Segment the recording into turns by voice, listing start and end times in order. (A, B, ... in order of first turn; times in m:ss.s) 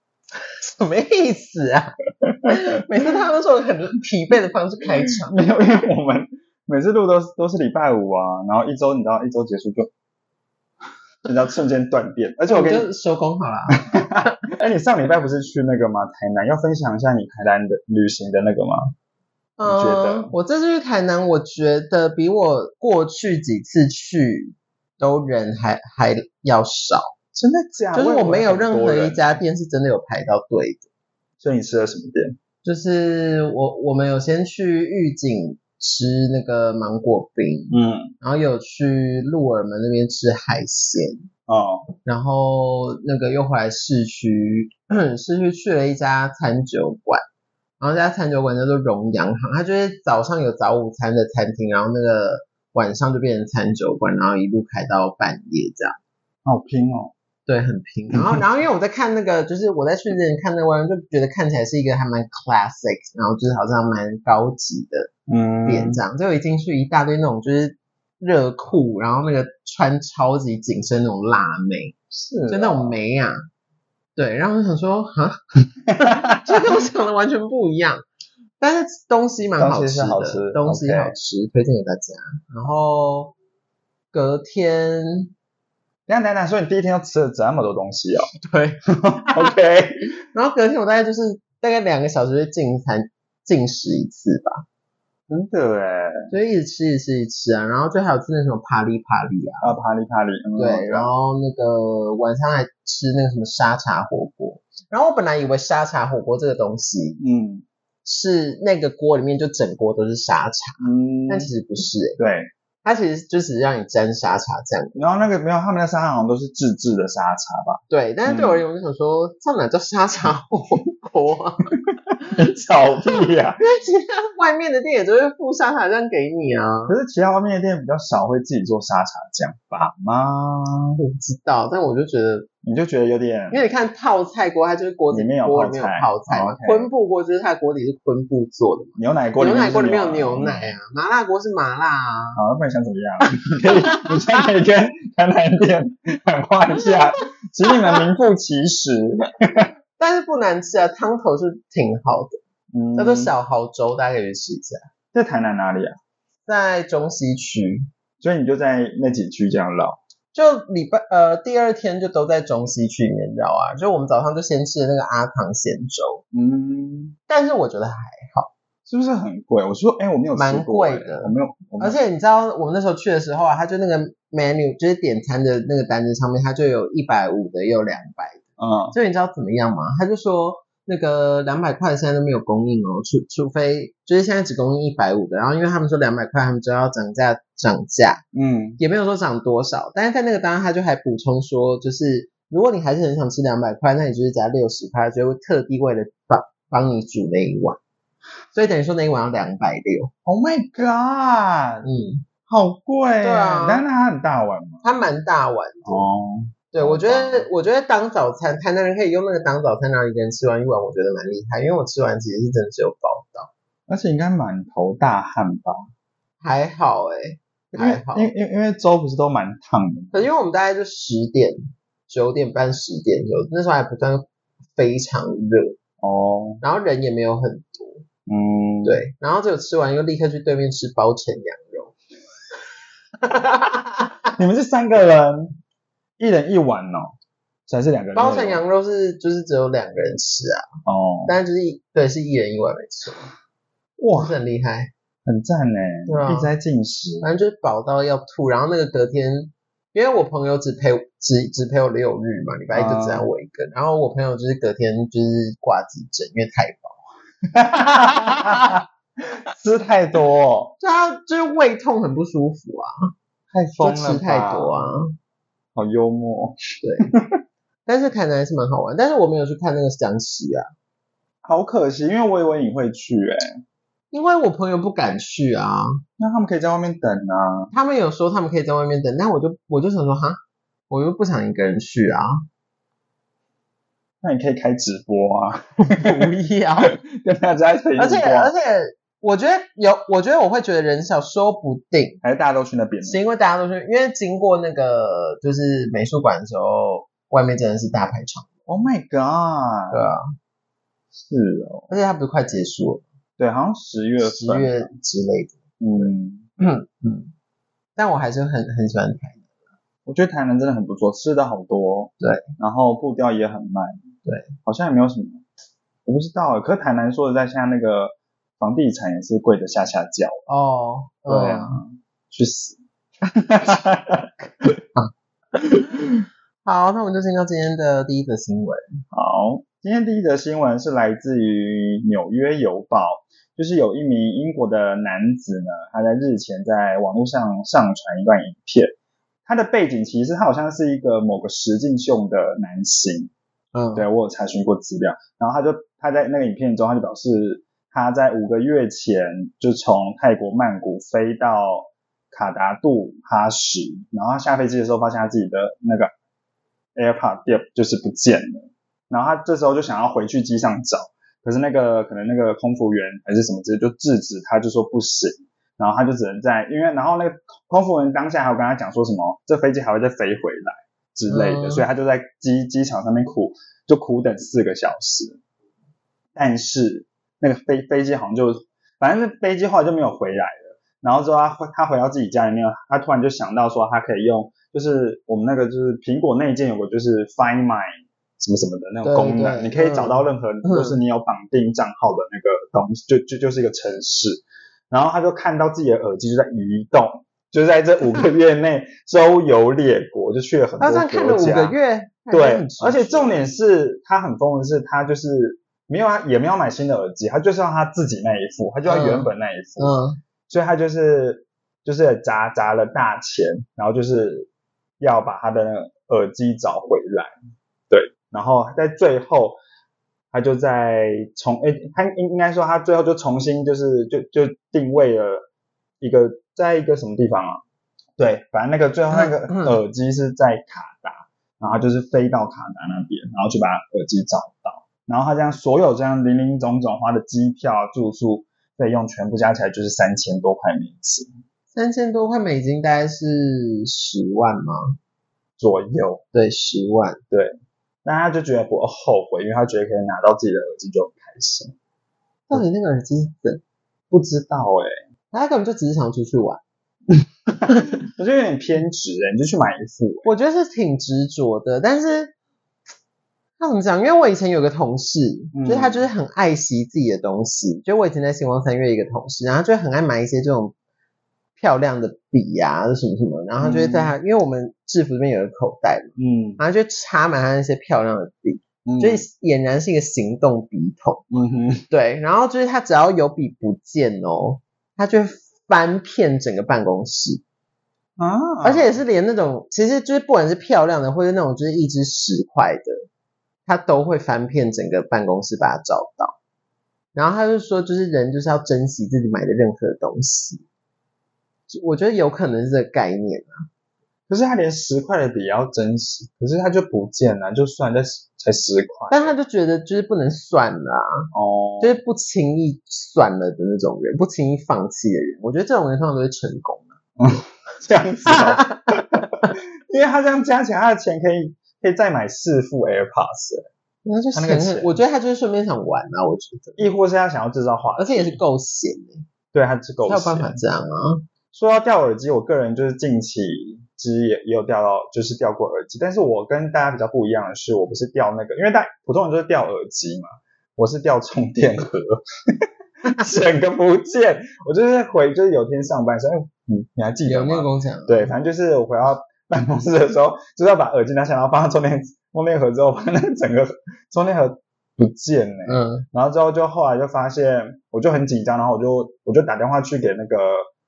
0:00.6-0:05.4 A
0:05.0-0:09.9 B
0:11.2-0:12.9 B
0:12.5-0:14.4 A
0:13.9-0:18.9 B
0:19.6-0:27.1 A
0:19.6-0:20.3 B
0:27.3-0:29.3 B
0:27.9-0:30.8 A
0:31.4-0:32.4 B
0:32.6-0:41.3 A
0:37.7-0:38.1 B
0:41.5-0:41.9 B
0:42.0-0:47.2 A
0:47.8-0:56.0 A
0:56.4-0:57.1 B
0:57.5-1:05.1 A
0:58.1-0:58.4 B
1:05.3-1:06.0 B
1:05.6-1:11.9 A
1:12.1-1:13.0 B
1:12.5-1:13.4 A
1:14.2-1:15.4 A
1:15.9-1:16.6 B
1:16.4-1:18.0 A
1:18.6-1:23.3 A
1:19.6-1:21.2 B
1:24.1-1:25.3 A
1:26.1-1:28.3 B
1:28.4-1:29.5 A
1:29.0-1:30.0 B
1:30.3-1:34.6 A
1:35.3-1:36.3 B
1:36.3-1:39.7 A
1:39.6-1:41.1 B
1:40.6-1:47.2 A
1:47.2-1:47.6 B
1:48.0-1:52.2 A
1:50.8-1:51.5 B
1:52.2-1:52.5 B
1:52.8-1:55.1 A
1:54.9-1:58.6 B
1:57.9-2:01.7 A
2:02.2-2:03.6 B
2:03.6-2:06.9 A
2:06.9-2:11.0 B
2:11.0-2:12.5 A
2:12.6-2:13.6 B
2:13.5-2:22.4 A
2:15.1-2:16.9 B
2:19.0-2:20.8 B
2:22.4-2:29.7 B
2:23.5-2:24.1 A
2:30.0-2:32.4 A
2:32.7-2:33.3 B
2:32.9-2:34.9 A
2:35.1-2:36.0 B
2:36.5-2:37.9 A
2:38.2-2:40.0 B
2:40.3-2:46.2 A
2:46.3-2:47.1 B
2:47.3-2:48.5 A
2:48.9-2:52.0 B
2:50.3-3:08.2 A
2:58.6-2:58.9 B
3:08.3-3:08.8 B
3:08.8-3:17.8 A
3:18.5-3:20.1 A
3:20.2-3:21.8 B
3:21.8-3:22.2 A
3:22.5-3:24.8 B
3:23.2-3:23.8 A
3:24.8-3:26.0 A
3:25.8-3:27.5 B
3:26.7-3:33.5 A
3:33.9-3:35.9 B
3:36.4-3:38.3 A
3:37.7-3:40.2 B
3:40.1-3:45.8 A
3:46.0-3:46.6 B
3:46.6-3:48.0 A
3:48.3-3:49.0 B
3:48.8-3:51.9 A
3:53.2-3:54.1 A
3:54.4-3:55.6 B
3:56.2-3:57.1 B
3:57.7-3:58.6 B
3:58.1-4:00.6 A
4:00.8-4:01.3 B
4:01.3-4:03.3 A
4:04.0-4:04.4 B
4:04.1-4:04.9 A
4:05.2-4:07.2 B
4:06.1-4:06.5 A
4:07.2-4:17.0 A
4:12.7-4:13.3 B
4:17.5-4:18.8 B
4:19.5-4:20.7 B
4:20.8-4:23.1 A
4:23.5-4:24.7 B
4:23.8-4:25.1 A
4:25.7-4:27.2 B
4:26.8-4:27.1 A
4:27.8-4:30.7 A
4:31.4-4:33.6 B
4:34.1-4:36.0 A
4:36.2-4:37.7 B
4:37.7-4:42.4 A
4:44.2-4:46.3 B
4:45.8-4:46.9 A
4:46.8-4:48.5 B
4:48.0-4:52.2 A
4:52.2-4:53.2 B
4:53.0-4:58.5 A
4:58.7-5:00.0 B
4:59.9-5:00.2 A
5:01.2-5:01.9 B
5:01.9-5:03.0 A
5:03.4-5:04.9 B
5:04.2-5:07.3 A
5:05.8-5:06.4 B
5:08.0-5:09.4 A
5:10.0-5:14.0 B
5:14.6-5:15.4 B
5:16.0-5:20.4 B
5:20.5-5:21.8 A
5:21.3-5:22.8 B
5:23.3-5:24.5 B
5:26.6-5:28.9 A
5:29.1-5:38.9 B
5:39.4-5:43.3 B
5:43.7-5:44.1 A
5:43.9-5:56.1 B
5:57.0-6:15.4 B
6:11.3-6:11.8 A
6:16.3-6:27.9 B
6:28.4-6:41.8 B
6:29.0-6:31.0 A
6:40.8-6:43.4 A
6:42.3-6:49.9 B
6:48.8-6:50.2 A
6:50.5-6:54.5 B
6:55.0-6:57.3 B
6:57.9-6:59.6 B
7:00.3-7:05.4 B
7:06.0-7:07.6 B
7:08.2-7:21.3 B
7:09.1-7:09.8 A
7:21.7-7:25.0 A
7:25.6-7:26.2 B
7:26.3-7:27.2 A
7:27.3-7:31.7 B
7:32.5-7:33.6 A
7:34.1-7:35.0 B
7:35.3-7:36.6 A
7:37.5-7:40.3 B
7:40.2-7:42.3 A
7:43.6-7:50.7 A
7:45.5-7:46.0 B
7:51.6-8:01.3 A
7:53.6-7:54.1 B
7:56.2-7:56.6 B
7:58.8-7:59.2 B
8:01.3-8:01.9 B
8:01.9-8:07.4 A
8:08.2-8:09.0 B
8:08.6-8:13.0 A
8:13.6-8:16.3 A
8:17.1-8:20.6 A
8:21.7-8:23.6 A
8:24.3-8:29.3 B
8:29.1-8:31.3 A
8:31.3-8:32.0 B
8:31.8-8:36.9 A
8:37.2-8:39.2 B
8:38.2-8:39.5 A
8:39.9-8:43.7 B
8:44.0-8:46.9 A
8:44.3-8:44.9 B
8:46.8-8:48.4 B
8:48.0-8:49.3 A
8:49.5-8:50.6 B
8:50.0-8:51.2 A
8:51.5-9:20.7 B
9:07.2-9:08.3 A
9:15.6-9:16.0 A